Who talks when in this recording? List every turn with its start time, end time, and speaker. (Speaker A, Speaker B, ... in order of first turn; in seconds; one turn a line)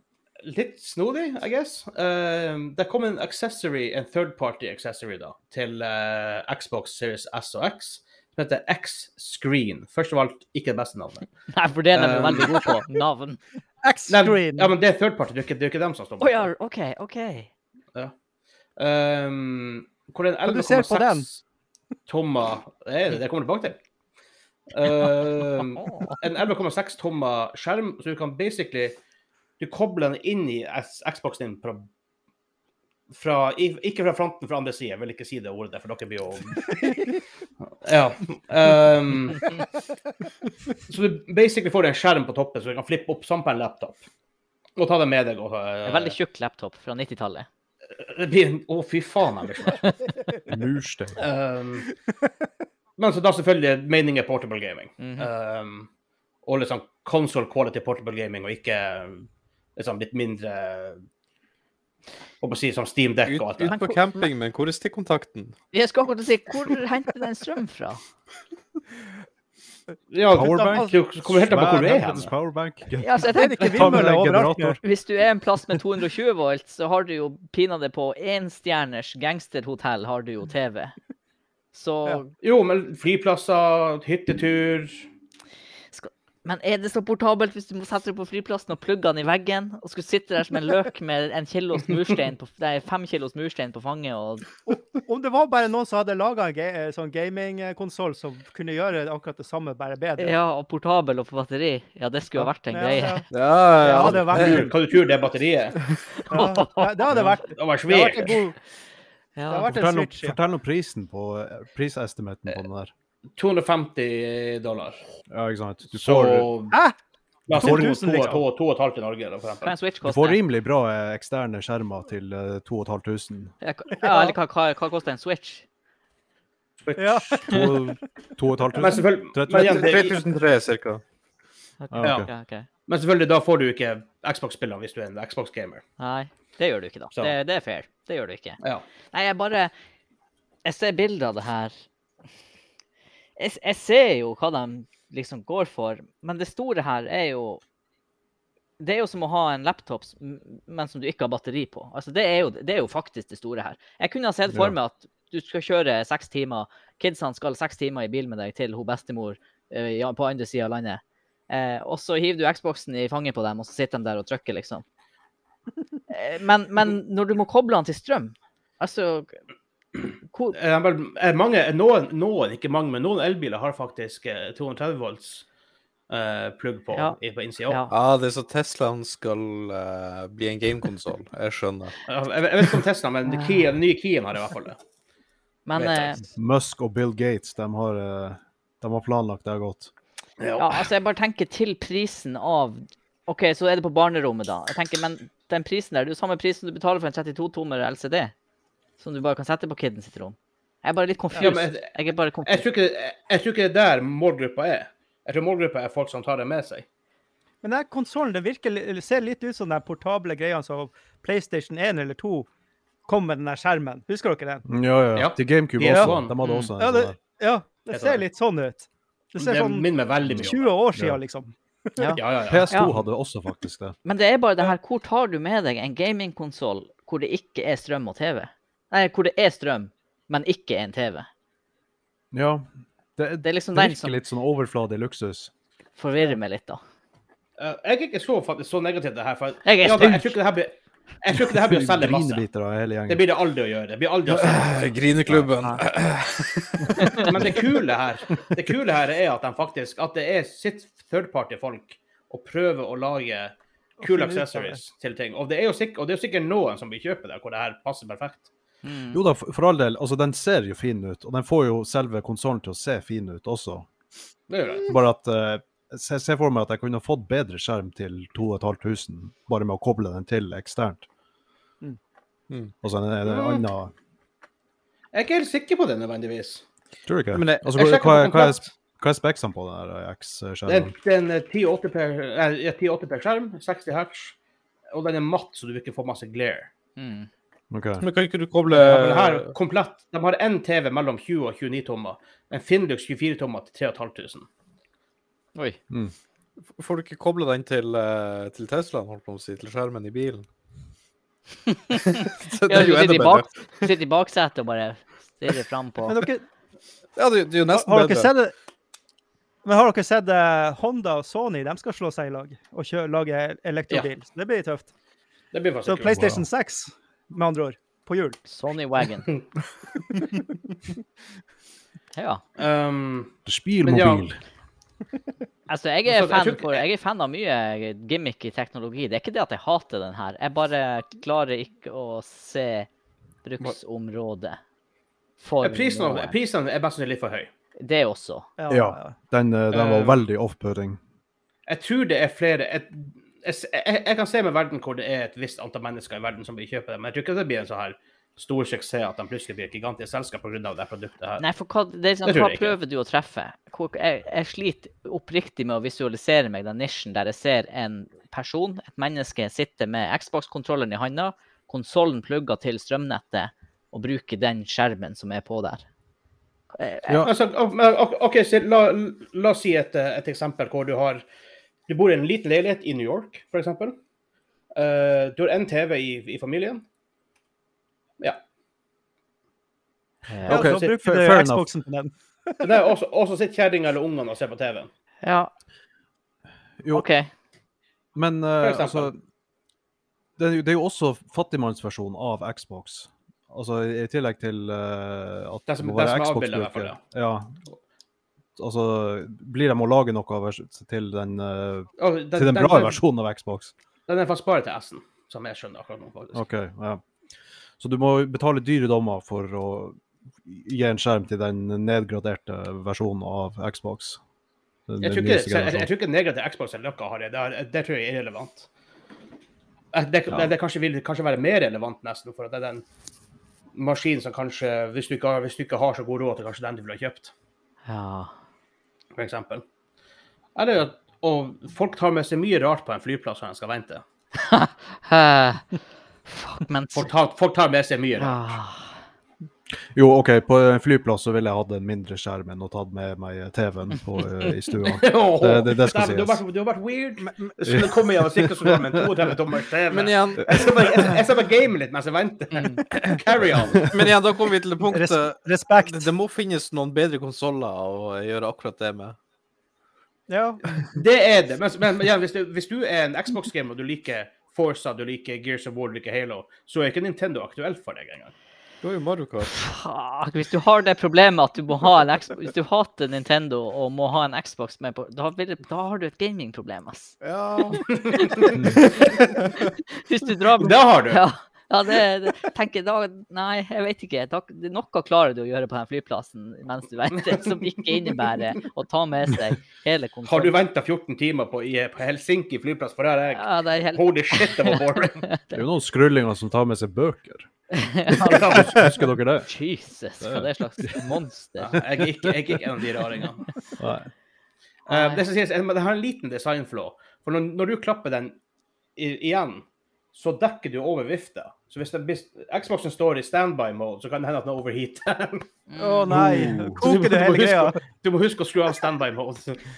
Speaker A: 0.4-11.3
Speaker B: 11.5-13.4
Speaker A: 11.9-12.7
Speaker C: 13.8-14.7
Speaker A: 14.1-16.5
Speaker B: 16.2-17.5
Speaker A: 18.8-21.4
Speaker C: 20.4-21.3
Speaker A: 22.1-23.8
Speaker A: 24.7-29.0
Speaker B: 25.9-26.1
Speaker A: 29.6-31.9
Speaker A: 33.1-37.0
Speaker A: 37.8-39.6
Speaker A: 40.9-44.0
Speaker A: 44.8-46.1
Speaker B: 45.8-47.5
Speaker A: 48.0-49.9
Speaker D: 50.5-51.2
Speaker A: 51.2-51.9
Speaker A: 53.0-55.9
Speaker B: 55.0-55.3
Speaker A: 56.4-61.0
Speaker A: 62.4-63.8
Speaker E: 63.3-65.5
Speaker B: 63.7-64.0
Speaker B: 65.7-68.0
Speaker A: 70.1-72.3
Speaker D: 70.3-74.8
Speaker B: 73.0-74.1
Speaker C: 73.3-74.8
Speaker B: 74.8-80.9
Speaker B: 81.7-82.3
Speaker A: 82.4-85.0
Speaker B: 85.9-94.5
Speaker C: 95.0-100.3
Speaker B: 100.2-103.2
Speaker C: 102.4-103.2
Speaker E: 103.3-104.7
Speaker C: 103.8-104.7
Speaker A: 104.0-105.8
Speaker B: 106.3-107.2
Speaker C: 106.3-108.6
Speaker A: 107.4-108.4
Speaker B: 109.4-109.7
Speaker C: 109.5-110.3
Speaker D: 109.7-112.9
Speaker A: 113.4-115.0
Speaker D: 115.3-116.5
Speaker A: 115.9-116.8
Speaker A: 117.5-119.7
Speaker C: 117.5-118.4
Speaker D: 117.5-118.4
Speaker B: 119.6-120.4
Speaker D: 120.0-123.5
Speaker B: 123.6-125.6
Speaker C: 124.0-124.3
Speaker A: 126.8-127.6
Speaker C: 127.0-127.7
Speaker D: 127.4-130.1
Speaker A: 128.7-130.2
Speaker E: 129.5-131.0
Speaker B: 131.8-132.7
Speaker D: 131.9-132.3
Speaker A: 132.0-132.3
Speaker A: 132.9-135.8
Speaker B: 136.0-138.6
Speaker B: 139.1-139.7
Speaker B: 140.6-141.7
Speaker B: 143.4-147.6
Speaker B: 148.8-164.8
Speaker B: 166.1-169.4
Speaker B: 170.3-170.6
Speaker A: 170.5-175.4
Speaker A: 176.1-177.8
Speaker E: 177.9-181.9
Speaker A: 182.1-184.8
Speaker B: 185.7-186.2
Speaker A: 185.7-186.2
Speaker D: 186.3-189.9
Speaker A: 190.4-190.9
Speaker B: 190.6-198.3
Speaker B: 199.0-202.6
Speaker A: 201.3-201.9
Speaker A: 202.4-206.8
Speaker C: 207.6-212.5
Speaker C: 213.1-214.6
Speaker D: 214.7-217.2
Speaker A: 215.1-216.4
Speaker C: 215.8-216.1
Speaker B: 216.4-216.7
Speaker C: 216.8-222.1
Speaker A: 217.9-218.2
Speaker A: 219.4-220.7
Speaker D: 220.3-221.2
Speaker B: 222.0-222.9
Speaker A: 222.2-222.7
Speaker D: 222.4-223.9
Speaker B: 224.0-231.3
Speaker D: 232.3-235.5
Speaker B: 233.4-234.2
Speaker B: 236.0-236.8
Speaker A: 237.6-242.4
Speaker B: 239.6-240.3
Speaker D: 241.3-243.2
Speaker A: 243.1-245.4
Speaker E: 244.3-247.6
Speaker B: 247.0-247.2
Speaker A: 247.2-258.5
Speaker C: 254.0-254.8
Speaker B: 258.8-259.2
Speaker D: 259.1-263.9
Speaker A: 264.5-264.9
Speaker D: 264.9-271.0
Speaker D: 272.8-273.9
Speaker A: 273.2-273.7
Speaker A: 275.1-276.6
Speaker D: 277.1-280.9
Speaker E: 277.3-277.6
Speaker A: 277.6-278.7
Speaker A: 280.6-284.4
Speaker A: 284.9-286.7
Speaker B: 287.0-287.3
Speaker D: 287.7-288.0
Speaker E: 288.0-289.5
Speaker A: 288.7-294.5
Speaker E: 296.8-300.4
Speaker B: 301.7-302.0
Speaker E: 301.9-303.9
Speaker B: 302.6-306.2
Speaker C: 306.1-306.4
Speaker E: 307.1-308.3
Speaker C: 307.7-308.5
Speaker C: 309.6-314.9
Speaker A: 315.5-316.3
Speaker C: 315.8-318.4
Speaker D: 316.1-316.4
Speaker B: 318.5-319.4
Speaker B: 322.1-322.4
Speaker A: 322.6-324.3
Speaker D: 323.4-324.4
Speaker B: 325.7-332.9
Speaker A: 326.1-326.8
Speaker B: 333.4-334.6
Speaker B: 335.4-336.3
Speaker A: 335.6-337.5
Speaker B: 337.8-338.5
Speaker C: 338.6-339.1
Speaker D: 338.7-341.0
Speaker A: 339.7-340.2
Speaker A: 341.7-351.4
Speaker B: 351.4-365.8
Speaker A: 352.2-352.8
Speaker B: 366.7-367.2
Speaker A: 367.2-371.2
Speaker A: 371.9-374.0
Speaker A: 374.7-376.8
Speaker B: 380.3-380.7
Speaker C: 380.4-382.7
Speaker D: 380.5-381.7
Speaker A: 382.6-384.9
Speaker B: 385.2-385.5
Speaker D: 386.8-387.1
Speaker B: 386.9-387.3
Speaker D: 388.1-389.2
Speaker A: 388.6-389.1
Speaker D: 390.4-397.6
Speaker A: 395.7-397.0
Speaker D: 398.6-403.7
Speaker A: 402.0-403.0
Speaker A: 404.1-406.4
Speaker D: 406.3-407.0
Speaker D: 407.8-414.2
Speaker D: 414.9-415.9
Speaker A: 415.0-418.7
Speaker A: 419.9-422.8
Speaker A: 423.7-427.3
Speaker B: 427.9-428.3
Speaker A: 429.1-429.6
Speaker A: 430.6-434.0
Speaker B: 434.4-435.6
Speaker B: 436.3-437.1
Speaker A: 436.9-438.5
Speaker B: 438.2-438.9
Speaker D: 439.9-446.4
Speaker A: 444.8-453.9
Speaker D: 447.6-449.0
Speaker E: 449.9-451.0
Speaker B: 452.5-452.8
Speaker E: 453.8-459.2
Speaker C: 454.9-456.1
Speaker C: 460.3-460.8
Speaker A: 460.9-468.3
Speaker E: 468.8-469.5
Speaker B: 469.4-477.2
Speaker E: 477.2-477.9
Speaker B: 477.7-490.6
Speaker A: 477.9-479.2
Speaker A: 480.6-481.2
Speaker A: 487.3-488.1
Speaker A: 490.2-495.2
Speaker B: 493.4-495.6
Speaker D: 495.5-497.5
Speaker B: 497.7-498.7
Speaker A: 498.1-498.8
Speaker D: 498.3-499.5
Speaker B: 499.4-501.8
Speaker D: 500.2-501.0
Speaker A: 501.6-503.5
Speaker D: 503.8-504.1
Speaker B: 504.9-505.2
Speaker A: 504.9-508.4
Speaker A: 508.9-515.5
Speaker B: 515.7-516.1
Speaker C: 515.8-517.8
Speaker D: 516.1-516.9
Speaker A: 516.8-519.6